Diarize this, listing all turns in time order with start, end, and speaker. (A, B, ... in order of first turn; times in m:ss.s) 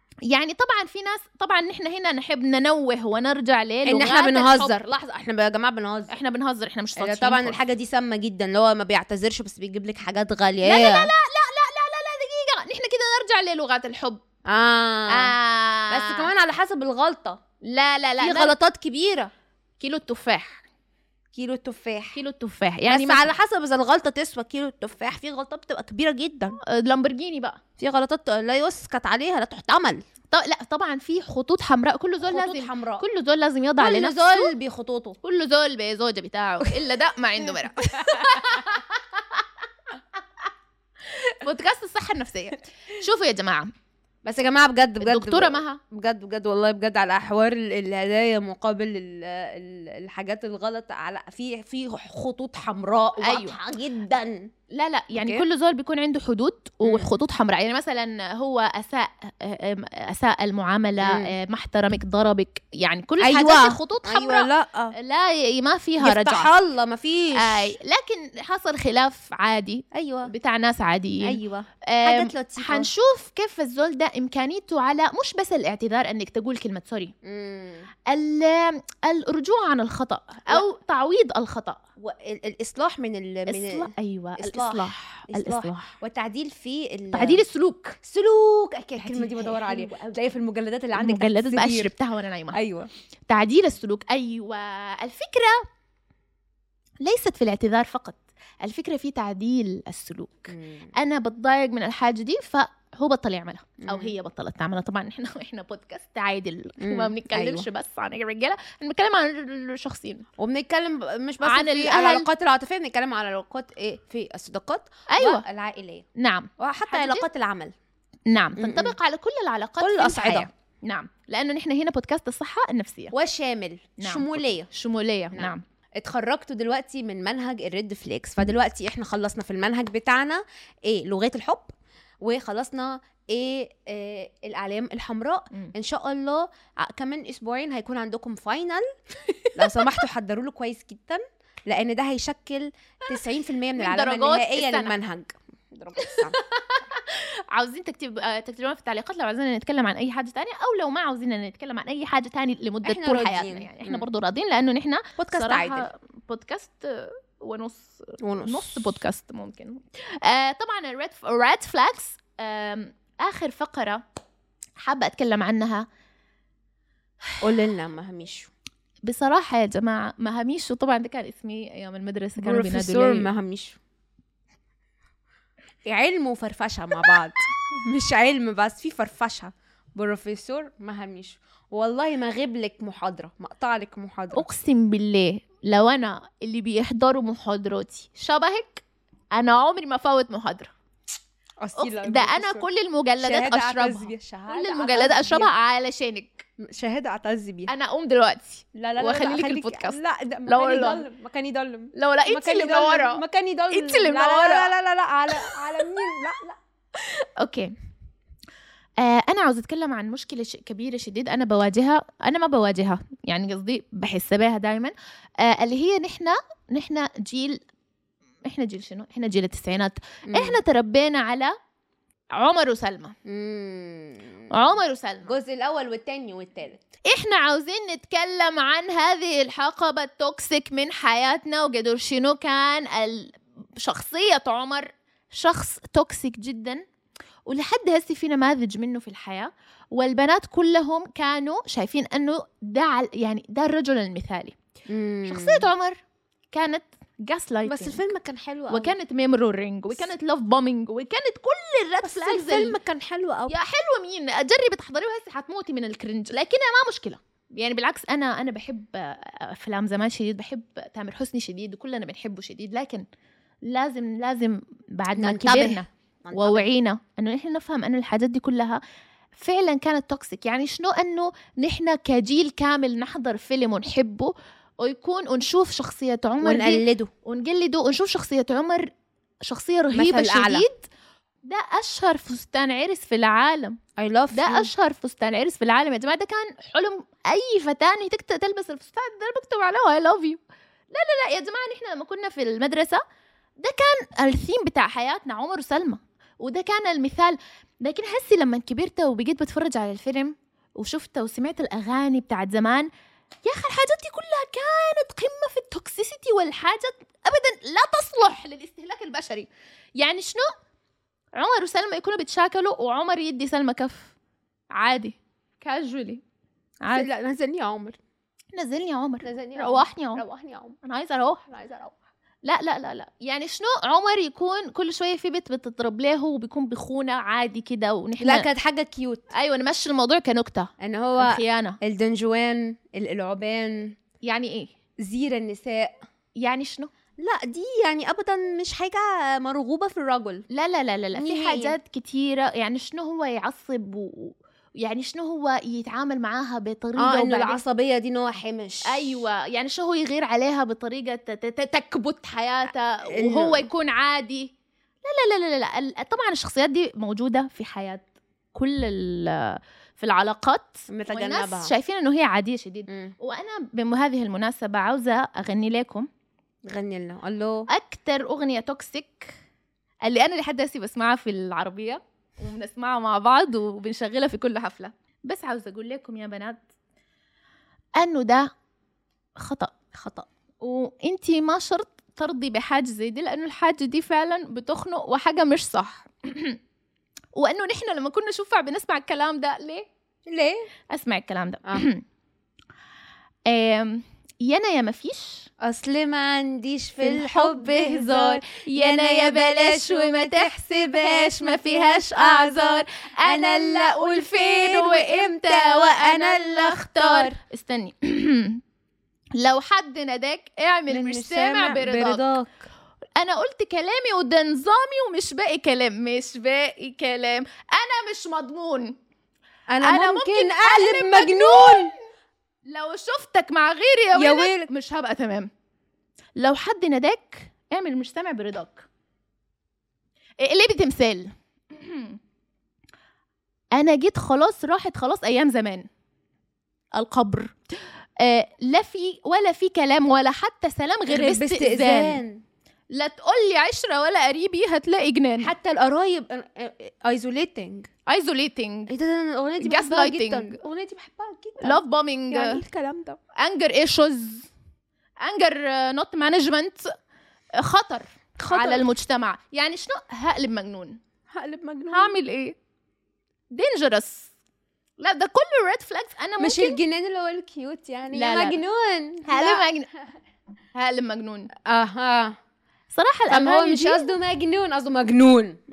0:00.3-0:04.8 A
0:03.8-0:06.1 B
0:06.1-0:07.6 A
0:07.0-0:11.1 B
0:10.6-0:14.2 A
0:14.4-0:15.3 B
0:15.1-0:16.3 A
0:15.9-0:17.4 B
0:17.6-0:18.5 A
0:18.2-0:19.3 B
0:19.8-0:20.6 A
0:21.3-0:22.2 B
0:22.1-0:23.3 A
0:22.9-0:26.6 B
0:26.6-0:27.6 A
0:27.8-0:30.0 B
0:30.3-0:34.5 A
0:32.2-0:33.0 B
0:33.8-0:35.2 B
0:35.2-0:39.4 A
0:37.5-0:38.4 B
0:41.1-0:43.7 A
0:44.2-0:54.5 B
0:45.0-0:45.8 A
0:53.2-0:53.6 A
0:54.7-1:06.5 A
0:55.2-0:55.4 B
0:56.8-0:57.1 B
1:01.0-1:01.3 B
1:03.2-1:04.9 B
1:06.0-1:07.7 B
1:07.4-1:17.1 A
1:09.9-1:10.3 B
1:11.2-1:12.9 B
1:17.2-1:17.9 B
1:18.1-1:21.8 A
1:22.0-1:27.4 B
1:23.5-1:26.0 A
1:27.1-1:28.0 A
1:28.0-1:31.9 B
1:29.0-1:30.2 A
1:30.9-1:32.6 A
1:32.5-1:32.9 B
1:33.3-1:35.6 A
1:37.0-1:50.2 A
1:40.5-1:40.9 B
1:43.8-1:44.1 B
1:46.8-1:47.7 B
1:50.4-1:56.0 B
1:51.4-1:52.3 A
1:55.1-1:55.4 A
1:56.2-1:57.2 A
1:56.6-1:57.7 B
1:58.3-2:03.1 A
1:58.6-1:58.9 B
1:59.8-2:00.5 B
2:03.1-2:04.7 B
2:04.0-2:05.6 A
2:05.3-2:18.8 B
2:19.3-2:19.7 A
2:19.5-2:26.4 B
2:23.8-2:24.9 A
2:26.0-2:44.0 A
2:32.8-2:34.0 B
2:35.2-2:35.9 B
2:38.2-2:38.9 B
2:44.8-2:45.8 A
2:47.4-2:48.5 B
2:49.1-2:53.3 A
2:52.4-2:53.8 B
2:55.8-3:04.4 B
3:04.3-3:10.7 A
3:11.6-3:12.7 B
3:11.8-3:16.4 A
3:13.2-3:15.5 B
3:16.6-3:17.7 B
3:17.7-3:21.0 A
3:18.8-3:26.6 B
3:21.9-3:24.7 A
3:27.0-3:27.7 A
3:29.0-3:37.6 A
3:38.4-3:41.5 A
3:40.3-3:40.6 B
3:42.4-3:43.1 A
3:43.2-3:46.9 B
3:44.5-3:45.3 A
3:47.0-3:56.8 A
3:57.5-4:04.6 A
4:04.9-4:05.7 B
4:05.3-4:06.0 A
4:06.5-4:08.0 A
4:07.6-4:08.9 B
4:08.7-4:12.8 A
4:12.0-4:13.5 B
4:13.5-4:23.0 A
4:23.6-4:28.8 A
4:25.1-4:26.7 B
4:29.4-4:38.9 A
4:36.4-4:37.1 B
4:39.4-4:40.9 A
4:39.9-4:40.6 B
4:41.4-4:43.8 A
4:44.0-4:44.7 B
4:44.3-4:50.4 A
4:50.9-4:53.0 A
4:53.6-5:02.9 A
5:03.4-5:10.5 A
5:11.3-5:14.1 A
5:14.7-5:16.2 A
5:16.8-5:17.1 A
5:16.9-5:18.0 B
5:18.5-5:20.2 A
5:19.2-5:20.8 B
5:20.8-5:21.9 A
5:21.5-5:21.9 B
5:22.4-5:28.5 A
5:28.2-5:29.3 B
5:29.3-5:31.8 A
5:30.8-5:34.0 B
5:34.2-5:34.7 A
5:35.0-5:35.9 B
5:36.4-5:36.9 A
5:37.2-5:40.4 B
5:40.5-5:47.6 A
5:41.1-5:41.8 B
5:47.0-5:49.2 B
5:48.9-5:54.5 A
5:53.1-5:53.7 B
5:55.0-6:06.1 A
6:00.9-6:01.7 B
6:02.9-6:03.1 B
6:06.6-6:07.7 B
6:07.7-6:09.3 A
6:10.0-6:16.6 A
6:18.0-6:18.5 A
6:19.4-6:19.7 A
6:19.9-6:20.3 B
6:20.6-6:26.6 A
6:27.4-6:29.9 A
6:30.3-6:30.7 B
6:30.9-6:32.0 A
6:33.5-6:35.5 A
6:35.6-6:47.4 B
6:37.0-6:48.6 A
6:49.4-6:52.3 A
6:50.9-6:52.6 B
6:53.2-6:59.0 A
6:59.7-7:01.9 B
6:59.8-7:02.0 A
7:02.7-7:05.5 A
7:04.1-7:04.7 B
7:06.4-7:08.8 A
7:10.4-7:12.2 A
7:13.7-7:15.9 A
7:16.9-7:17.5 A
7:18.2-7:22.2 A
7:21.1-7:22.4 B
7:22.9-7:25.5 A
7:25.4-7:27.9 B
7:28.1-7:28.9 A
7:28.9-7:33.2 B
7:29.6-7:30.6 A
7:31.6-7:32.6 A
7:33.4-7:34.5 A
7:35.2-7:36.9 A
7:37.6-7:41.0 A
7:38.4-7:38.9 B
7:41.3-7:42.1 B
7:41.9-7:42.5 A
7:43.5-7:44.3 A
7:45.0-7:46.8 A
7:46.4-7:49.7 B
7:48.1-7:48.6 A
7:49.2-7:49.9 A
7:50.7-7:51.5 A
7:51.6-7:52.4 B
7:52.9-7:54.1 A
7:53.3-7:55.6 B